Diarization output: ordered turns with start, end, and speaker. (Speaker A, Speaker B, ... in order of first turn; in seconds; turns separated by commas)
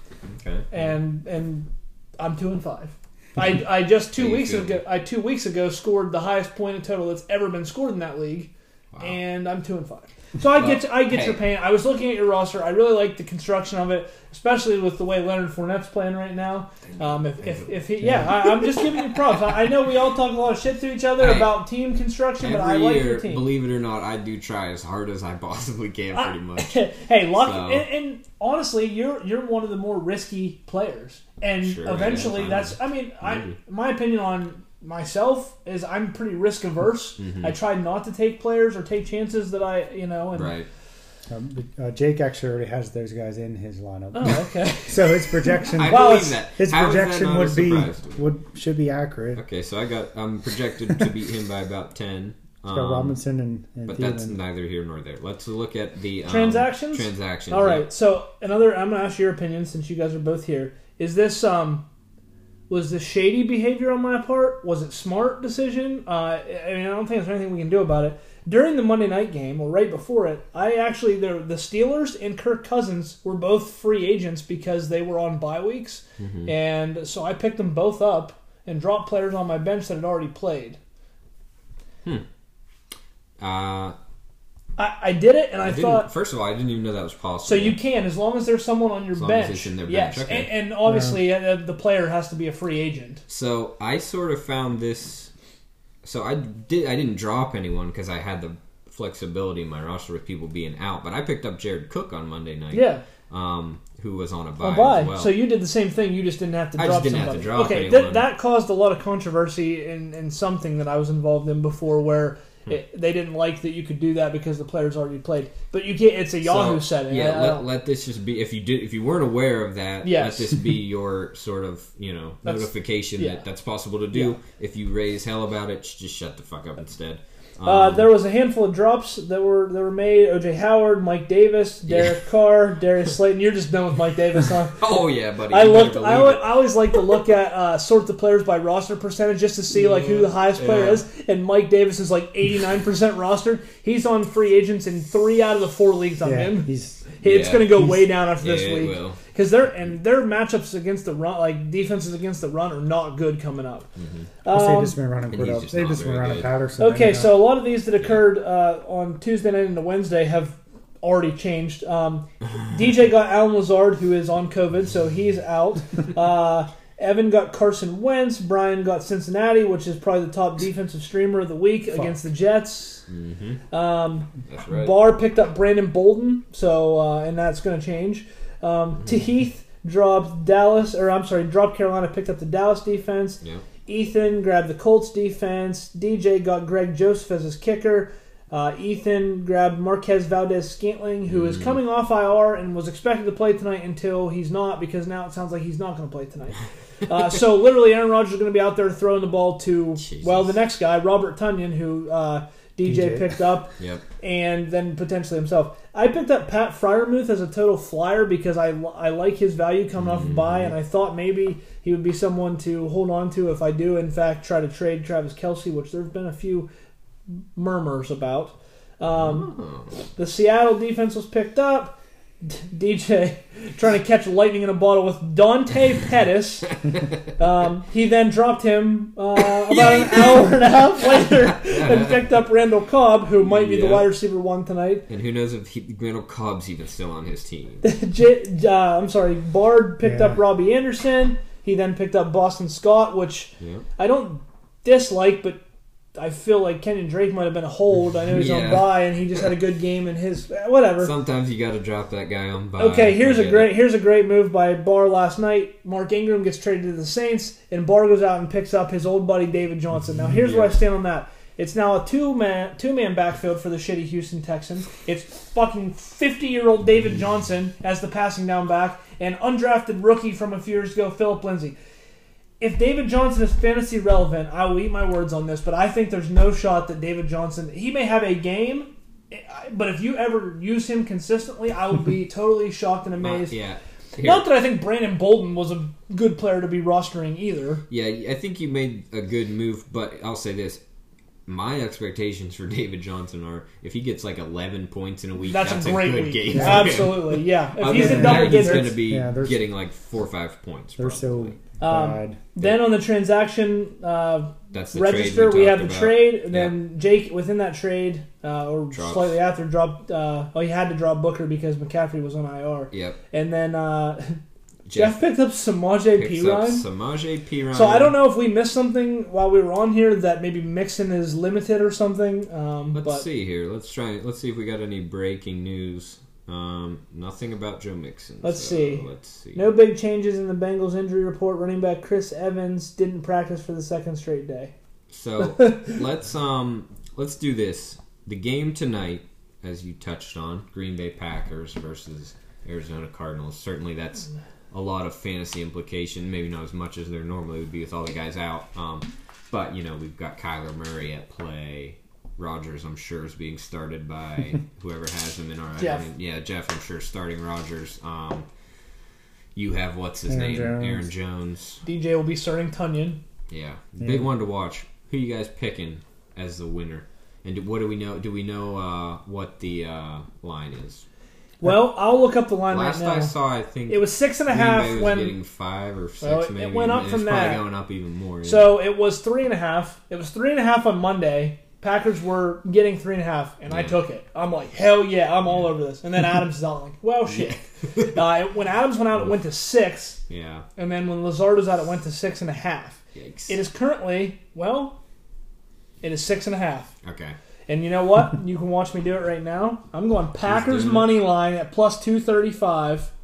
Speaker A: 0.2-0.7, Speaker B: 0.7-23.4, Speaker A: 4.2-4.8, Speaker A: 8.9-9.2, Speaker A: 10.5-11.4, Speaker A: 16.9-17.8, Speaker A: 21.2-21.6, Speaker A: 22.4-26.8, Speaker B: 26.1-40.5, Speaker A: 27.4-27.9, Speaker A: 31.6-33.6, Speaker A: 37.2-37.5, Speaker A: 40.3-40.7, Speaker C: 41.3-49.4, Speaker B: 44.1-46.4, Speaker A: 45.8-48.2, Speaker A: 49.3-53.2, Speaker C: 52.7-54.3, Speaker A: 53.9-57.9, Speaker B: 56.2-61.8, Speaker B: 62.7-80.8, Speaker A: 76.2-76.5, Speaker A: 83.4-84.0, Speaker B: 84.8-86.1, Speaker A: 85.6-87.8, Speaker B: 87.4-93.2, Speaker A: 89.1-90.5, Speaker C: 90.9-91.2, Speaker A: 93.3-95.3, Speaker A: 96.0-105.4, Speaker B: 102.7-103.0, Speaker B: 104.6-117.6, Speaker A: 106.8-108.3, Speaker A: 116.4-128.1, Speaker B: 120.0-120.5, Speaker B: 122.4-123.4, Speaker B: 127.6-134.9, Speaker A: 131.9-132.2, Speaker A: 134.8-136.6, Speaker B: 135.5-153.9, Speaker A: 139.7-141.0, Speaker C: 146.2-147.1, Speaker A: 147.2-149.2, Speaker A: 154.0-154.3, Speaker B: 154.4-155.0, Speaker C: 154.5-157.5, Speaker A: 155.3-156.5, Speaker B: 156.8-173.0, Speaker A: 173.1-173.6, Speaker B: 173.7-216.7, Speaker A: 174.5-175.1, Speaker A: 191.3-191.8, Speaker A: 200.0-200.6, Speaker C: 202.8-203.4, Speaker A: 203.8-204.0, Speaker A: 210.0-210.7, Speaker B: 217.5-219.5, Speaker A: 219.2-219.9, Speaker B: 220.2-226.8, Speaker B: 227.4-235.0, Speaker A: 229.6-230.5, Speaker A: 231.2-232.3, Speaker A: 233.4-234.1, Speaker A: 235.1-237.8, Speaker B: 237.8-245.6, Speaker C: 240.0-240.4, Speaker A: 243.6-243.8, Speaker B: 246.1-251.1, Speaker A: 248.3-249.0, Speaker A: 251.0-253.8, Speaker B: 252.8-271.8, Speaker A: 260.4-260.8, Speaker B: 272.6-283.6, Speaker A: 283.2-284.5, Speaker B: 284.2-287.8, Speaker A: 287.9-290.8, Speaker A: 291.4-301.6, Speaker B: 295.4-299.0, Speaker C: 296.5-297.1, Speaker C: 297.8-299.6, Speaker C: 301.0-302.4, Speaker B: 301.8-314.4, Speaker A: 304.7-306.7, Speaker A: 308.9-309.4, Speaker A: 312.9-313.2, Speaker A: 314.9-315.2, Speaker B: 314.9-316.8, Speaker A: 316.1-318.2, Speaker B: 317.7-323.2, Speaker A: 322.9-329.8, Speaker B: 328.4-334.7, Speaker A: 335.1-358.5, Speaker B: 335.4-336.0, Speaker B: 355.8-356.0, Speaker A: 359.5-361.8, Speaker C: 360.3-361.0, Speaker B: 361.8-363.2, Speaker A: 363.5-371.0, Speaker C: 364.0-364.3, Speaker B: 371.6-373.3, Speaker A: 372.7-378.7, Speaker B: 373.9-375.4, Speaker B: 376.2-377.7, Speaker B: 378.4-390.2, Speaker A: 383.7-384.0, Speaker A: 387.3-388.2, Speaker A: 390.3-390.7, Speaker B: 390.8-395.0, Speaker A: 393.1-393.6, Speaker B: 396.0-396.9, Speaker A: 397.0-397.4, Speaker B: 397.7-403.1, Speaker A: 400.4-401.1